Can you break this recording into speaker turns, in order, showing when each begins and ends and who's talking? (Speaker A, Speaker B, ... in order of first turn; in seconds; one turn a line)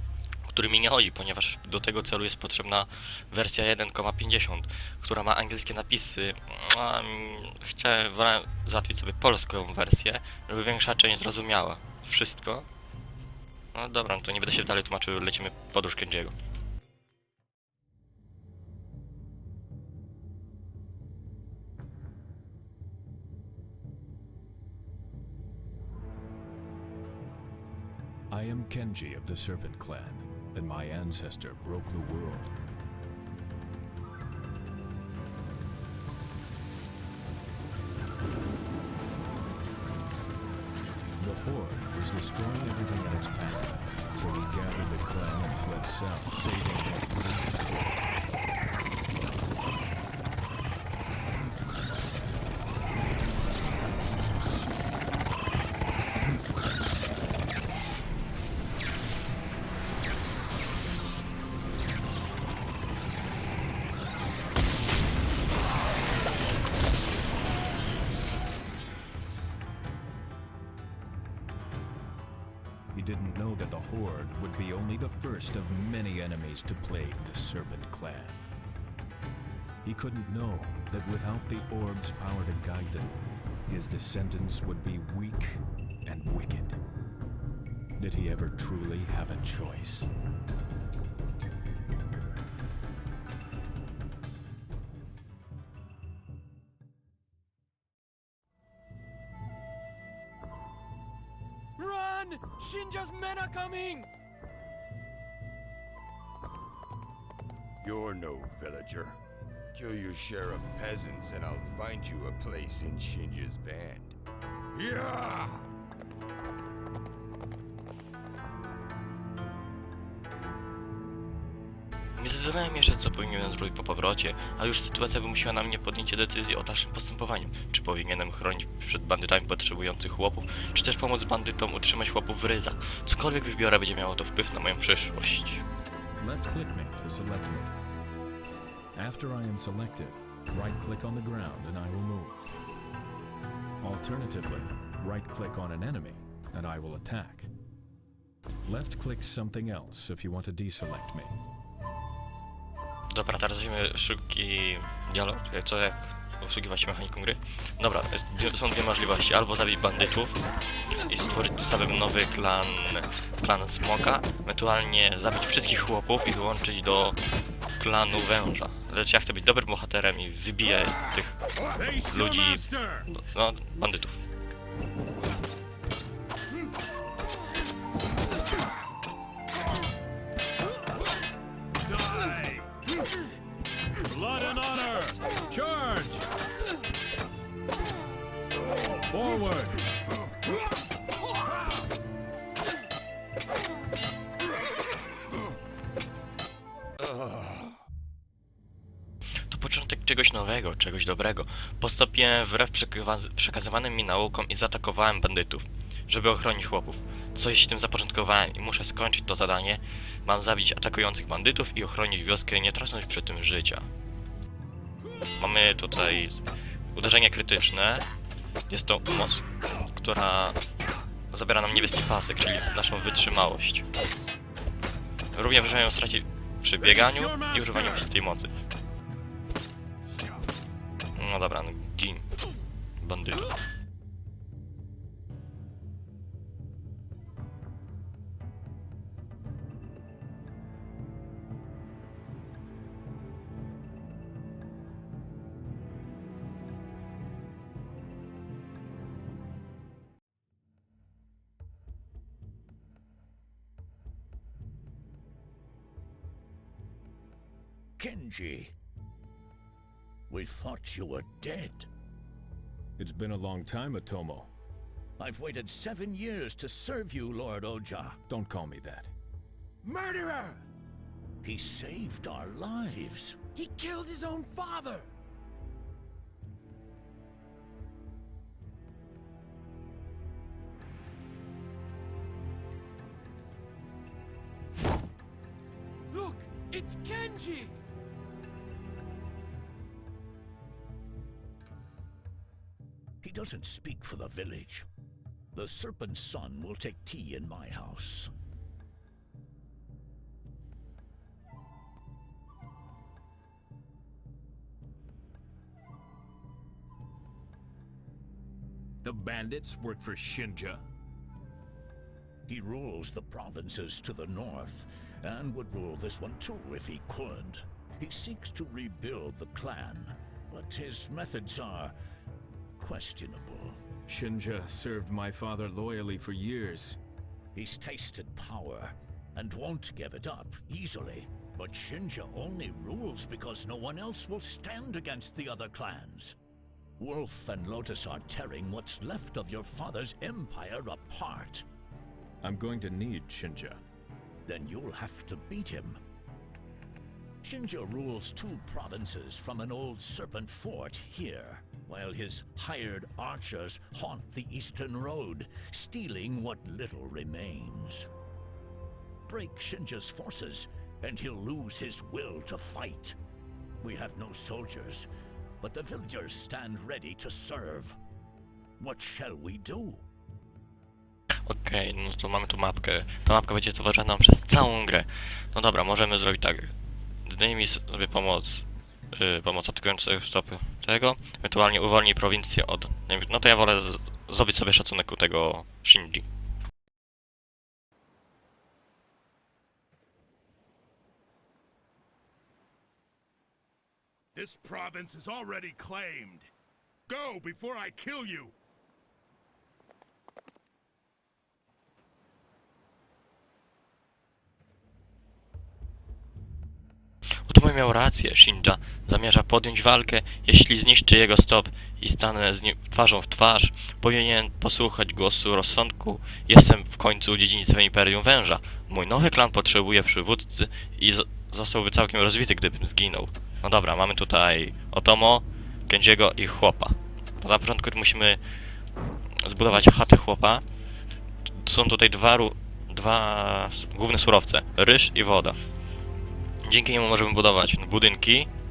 Speaker A: 0.5-12.7
Speaker A: 13.7-16.3
Speaker B: 28.3-32.5
Speaker B: 41.2-48.0
Speaker B: 72.9-78.4
Speaker B: 79.8-86.8
Speaker B: 88.0-90.1
Speaker C: 101.8-104.1
Speaker D: 107.8-109.2
Speaker D: 109.7-114.2
Speaker D: 114.7-115.6
Speaker A: 122.2-135.6
Speaker B: 136.2-137.7
Speaker B: 138.9-142.5
Speaker B: 143.8-147.5
Speaker B: 148.7-151.4
Speaker A: 153.1-160.4
Speaker A: 160.9-167.2
Speaker A: 167.8-171.4
Speaker E: 171.7-173.1
Speaker A: 172.1-174.2
Speaker E: 181.8-182.7
Speaker B: 184.1-186.3
Speaker E: 184.5-185.0
Speaker B: 189.1-189.8
Speaker A: 199.5-213.9
Speaker A: 215.4-216.4
Speaker A: 216.9-218.1
Speaker A: 218.7-220.6
Speaker A: 221.3-223.8
Speaker A: 225.3-228.5
Speaker E: 226.8-228.1
Speaker A: 231.2-232.3
Speaker A: 233.0-233.5
Speaker F: 258.0-258.7
Speaker F: 260.3-261.9
Speaker B: 263.0-264.5
Speaker F: 265.2-268.2
Speaker B: 268.3-269.1
Speaker C: 269.8-270.6
Speaker F: 271.4-273.4
Speaker C: 273.5-275.1
Speaker C: 286.1-287.7
Speaker F: 293.2-294.9
Speaker F: 295.5-298.3
Speaker B: 309.0-310.8
Speaker F: 312.5-321.9
Speaker F: 322.8-323.8
Speaker B: 324.1-327.0
Speaker F: 327.5-336.4
Speaker F: 337.0-341.6
Speaker B: 342.4-343.8
Speaker F: 344.4-346.0
Speaker F: 347.4-358.1
Speaker F: 359.2-363.2
Speaker F: 363.8-365.1
Speaker F: 365.6-368.0
Speaker F: 368.8-370.0
Speaker A: 371.4-376.7
Speaker A: 377.2-386.2
Speaker E: 394.3-396.5
Speaker E: 397.1-398.5
Speaker A: 407.4-428.4
Speaker A: 429.4-430.6
Speaker A: 431.5-435.6
Speaker A: 436.6-438.5